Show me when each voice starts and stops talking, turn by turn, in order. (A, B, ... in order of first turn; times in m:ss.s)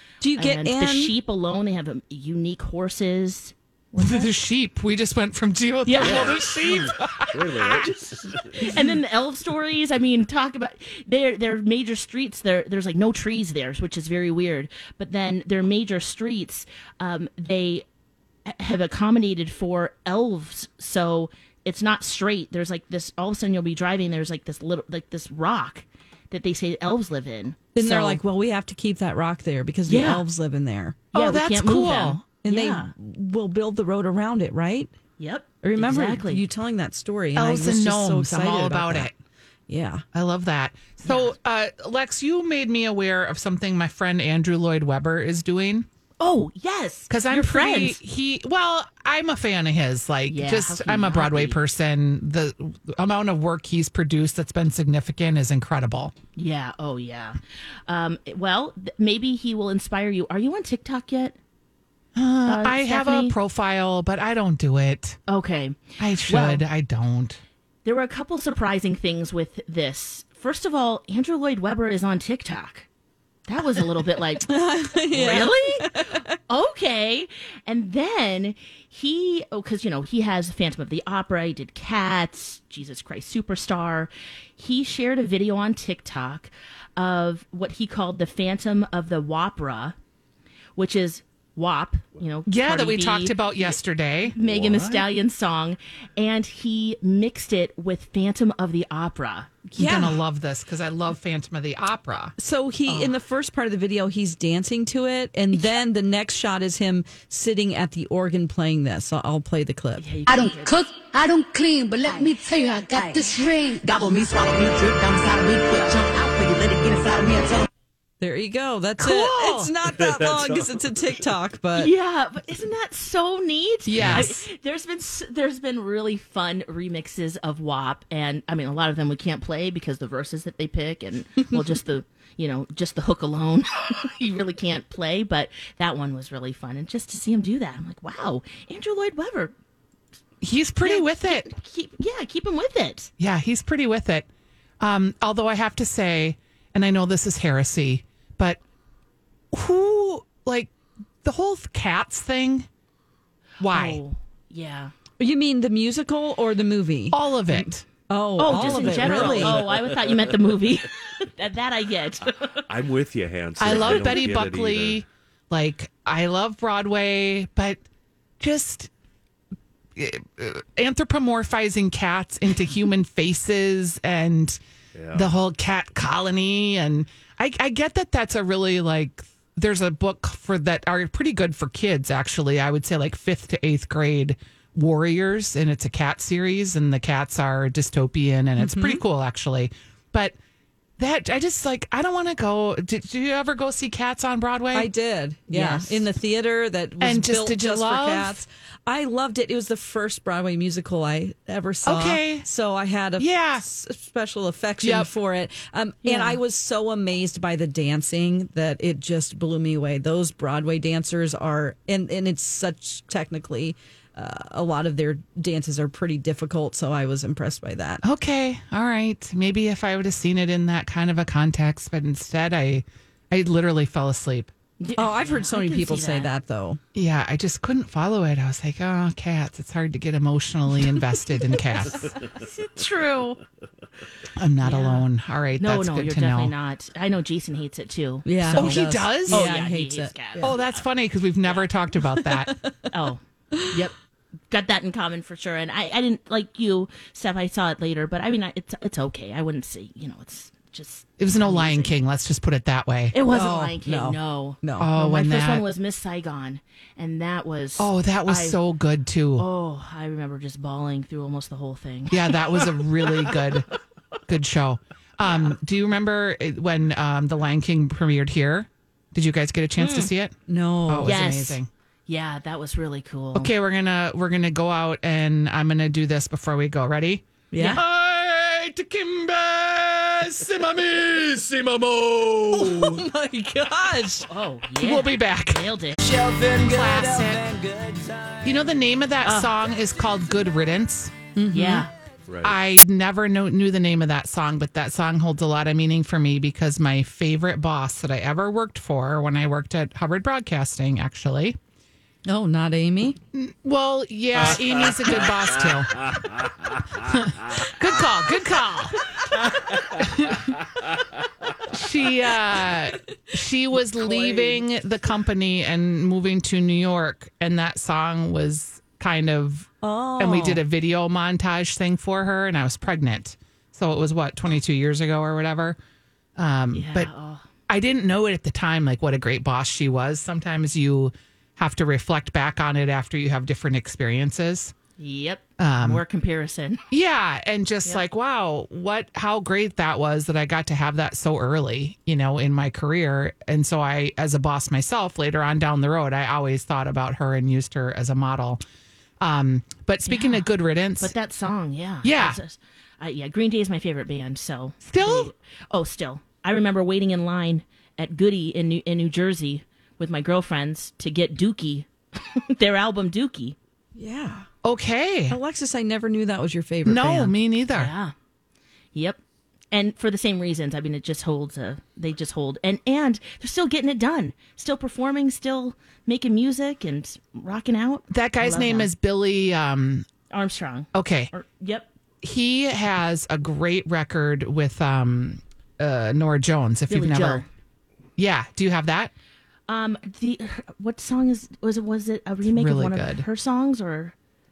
0:00.2-0:01.1 A
0:00.4-0:04.3 B
0:04.0-0:08.0 C
0:05.8-0:06.4 B
0:06.0-0:08.7 D
0:08.5-0:17.8 B
0:18.4-0:28.2 B
0:27.7-0:31.0 A
0:29.9-0:30.2 B
0:31.1-0:32.3 C
0:31.1-0:32.9 B
0:32.4-0:34.9 A
0:35.2-0:36.4 B
0:35.6-0:39.1 A
0:37.4-0:39.1 C
0:39.7-0:40.0 A
0:40.1-0:45.9 C
0:41.0-0:41.3 B
0:46.2-0:48.0 B
0:47.1-0:56.1 C
0:50.3-0:51.6 B
0:56.4-1:01.4 B
1:02.2-1:05.2 C
1:02.4-1:03.3 B
1:05.3-1:06.6 B
1:06.0-1:07.4 C
1:07.8-1:12.9 B
1:13.5-1:15.9 B
1:14.4-1:16.4 A
1:16.5-1:29.9 B
1:30.8-1:33.8 B
1:32.5-1:34.3 C
1:34.3-1:39.7 B
1:34.4-1:35.1 D
1:39.7-1:42.3 C
1:39.8-1:40.2 A
1:42.4-1:50.1 A
1:42.9-1:43.2 B
1:50.0-1:50.8 B
1:50.3-1:57.7 E
1:58.2-2:01.9 A
1:59.0-1:59.7 C
2:00.0-2:00.7 D
2:01.7-2:19.5 B
2:03.8-2:04.4 C
2:20.4-2:21.5 C
2:20.8-2:23.1 B
2:23.2-2:24.3 C
2:24.8-2:28.6 C
2:29.5-2:30.7 C
2:31.2-2:32.7 C
2:33.6-2:34.0 C
2:33.7-2:34.9 B
2:35.2-2:39.6 A
2:37.1-2:37.8 C
2:38.4-2:42.6 B
2:39.0-2:40.4 D
2:42.7-2:45.0 D
2:43.6-2:47.8 C
2:43.6-2:44.3 B
2:48.4-2:48.9 C
2:50.0-2:54.6 C
2:54.9-2:55.3 D
2:55.1-3:10.4 C
3:08.6-3:09.0 A
3:11.0-3:14.9 C
3:14.7-3:38.0 A
3:15.5-3:16.0 C
3:17.0-3:18.4 C
3:21.8-3:22.4 C
3:23.2-3:23.6 C
3:24.8-3:25.1 C
3:26.0-3:26.4 B
3:38.0-3:44.5 C
3:44.8-3:46.3 B
3:45.0-3:46.8 A
3:46.9-3:52.2 C
3:52.5-3:53.3 B
3:54.4-3:56.5 C
3:54.6-4:00.8 B
3:58.2-4:00.6 A
3:58.5-3:59.5 C
4:00.4-4:02.5 C
4:02.0-4:02.9 A
4:02.9-4:03.9 B
4:03.6-4:03.8 A
4:04.5-4:11.9 B
4:11.2-4:13.2 C
4:13.1-4:18.6 B
4:13.3-4:14.9 A
4:14.8-4:15.6 C
4:17.8-4:19.4 C
4:19.4-4:23.2 B
4:22.1-4:23.6 C
4:24.3-4:30.3 C
4:25.2-4:25.6 B
4:29.8-4:30.1 B
4:30.5-4:31.2 A
4:30.9-4:31.7 C
4:31.0-4:33.5 B
4:33.3-4:43.0 C
4:37.5-4:37.8 A
4:37.6-4:37.8 B
4:42.3-4:44.3 A
4:44.3-4:46.0 B
4:44.8-4:45.6 C
4:46.0-4:48.5 A
4:46.6-4:47.5 C
4:48.4-4:51.1 C
4:49.2-4:49.5 B
4:51.4-4:51.9 A
4:51.5-4:51.9 B
4:52.3-4:52.6 D
4:52.4-5:01.6 C
5:02.2-5:03.2 A
5:03.3-5:06.2 C
5:04.3-5:07.7 D
5:07.0-5:09.1 C
5:09.3-5:10.9 D
5:10.0-5:10.6 C
5:11.7-5:25.8 C
5:13.7-5:14.6 A
5:19.8-5:20.6 A
5:26.4-5:27.1 C
5:26.7-5:27.4 B
5:27.7-5:34.7 C
5:35.0-5:36.8 B
5:35.6-5:36.0 C
5:36.9-5:48.6 C
5:49.2-5:51.1 C
5:50.0-6:03.6 B
5:52.0-5:52.4 C
5:54.8-5:55.3 C
6:03.9-6:04.5 A
6:04.6-6:05.4 C
6:05.3-6:07.3 A
6:06.8-6:07.9 C
6:07.7-6:08.1 B
6:09.7-6:18.9 B
6:18.1-6:20.1 C
6:20.3-6:21.9 B
6:20.9-6:21.3 C
6:22.2-6:27.4 C
6:26.9-6:27.4 B
6:28.2-6:29.1 C
6:29.7-6:34.1 B
6:32.5-6:33.2 C